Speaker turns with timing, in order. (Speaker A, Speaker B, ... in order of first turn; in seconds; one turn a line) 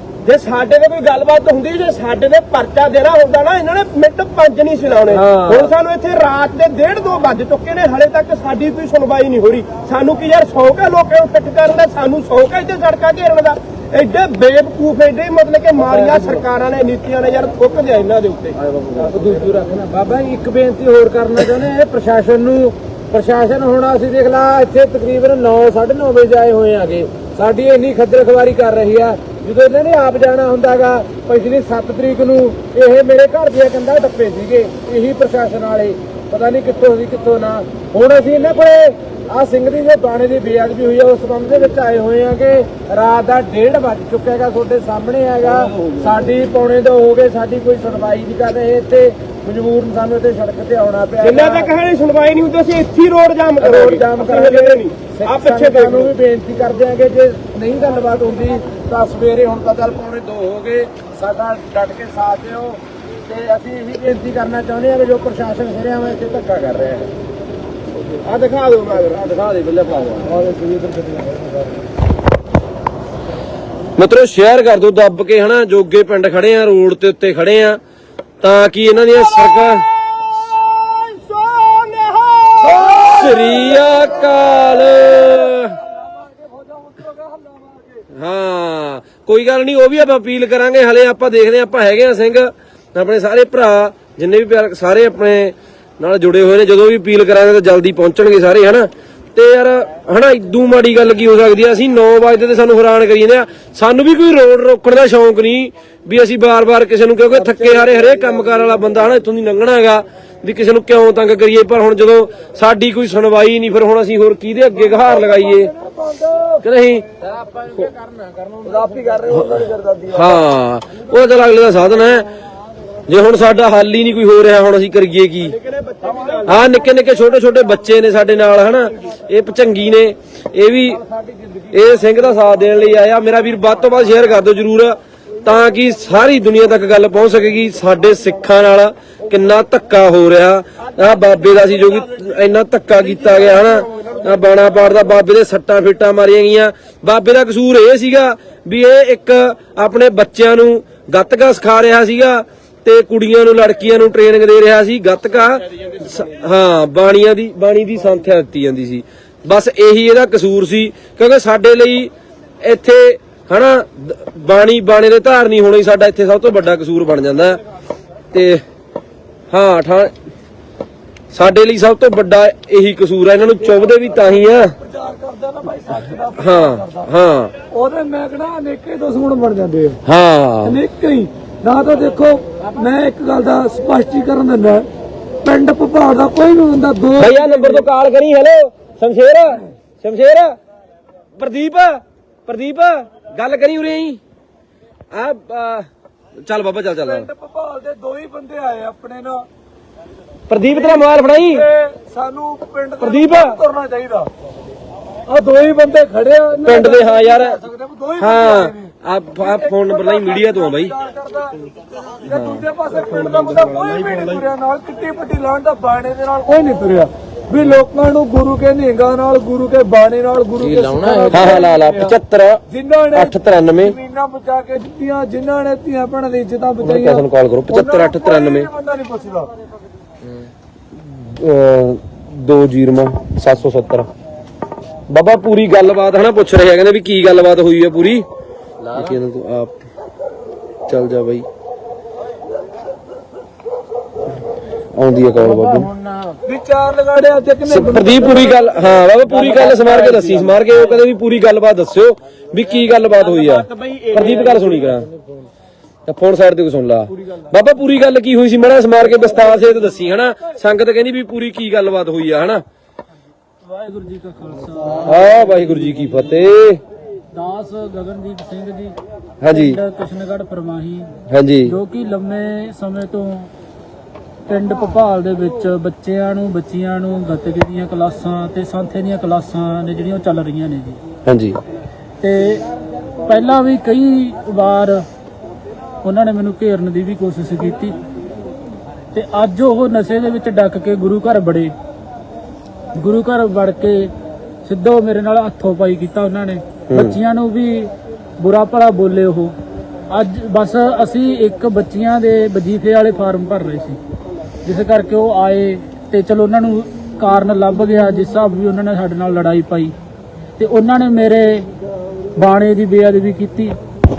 Speaker A: 0.2-18.6
Speaker B: 5.1-5.7
Speaker C: 15.9-16.2
Speaker C: 18.8-51.7
Speaker B: 45.5-46.1
Speaker A: 51.2-56.1
Speaker C: 53.6-67.1
Speaker A: 68.2-69.2
Speaker C: 69.2-70.8
Speaker B: 74.0-77.8
Speaker B: 78.4-79.8
Speaker A: 79.2-79.8
Speaker A: 80.5-83.5
Speaker B: 82.7-85.8
Speaker D: 82.8-84.3
Speaker D: 84.9-88.0
Speaker B: 88.1-115.7
Speaker D: 114.8-116.6
Speaker B: 116.6-117.0
Speaker C: 117.2-119.2
Speaker D: 118.7-120.4
Speaker B: 119.3-122.3
Speaker B: 123.1-125.5
Speaker A: 125.5-126.6
Speaker B: 126.4-131.0
Speaker C: 131.1-131.7
Speaker B: 131.7-167.6
Speaker B: 168.3-168.6
Speaker B: 169.5-170.1
Speaker B: 171.3-174.7
Speaker D: 174.2-177.1
Speaker B: 176.4-177.5
Speaker D: 177.7-180.0
Speaker B: 180.1-180.8
Speaker D: 180.6-184.9
Speaker D: 185.4-187.8
Speaker B: 187.2-190.6
Speaker B: 191.4-194.2
Speaker B: 195.1-195.9
Speaker B: 196.4-197.3
Speaker D: 197.0-199.4
Speaker B: 200.5-201.7
Speaker D: 200.7-204.3
Speaker B: 203.0-203.6
Speaker D: 205.3-222.2
Speaker B: 206.6-207.6
Speaker B: 208.2-210.9
Speaker B: 212.3-214.0
Speaker C: 220.6-221.6
Speaker B: 221.3-222.6
Speaker D: 222.7-229.5
Speaker B: 223.1-224.0
Speaker B: 226.8-228.7
Speaker B: 230.9-234.1
Speaker B: 235.1-238.2
Speaker B: 238.9-239.7
Speaker B: 240.9-241.4
Speaker B: 244.9-245.9
Speaker C: 245.4-246.4
Speaker D: 246.4-248.6
Speaker B: 247.7-255.1
Speaker A: 253.3-254.2
Speaker B: 256.1-262.6
Speaker E: 263.6-265.1
Speaker B: 265.0-266.8
Speaker E: 267.3-273.5
Speaker B: 269.4-269.8
Speaker B: 271.3-271.8
Speaker E: 274.5-281.0
Speaker B: 281.2-281.6
Speaker E: 282.2-282.6
Speaker E: 283.2-285.0
Speaker E: 286.0-287.9
Speaker E: 289.1-291.7
Speaker E: 292.9-294.1
Speaker E: 294.6-299.5
Speaker B: 296.9-297.2
Speaker E: 300.1-304.0
Speaker E: 304.6-309.9
Speaker E: 310.6-311.7
Speaker E: 312.4-313.8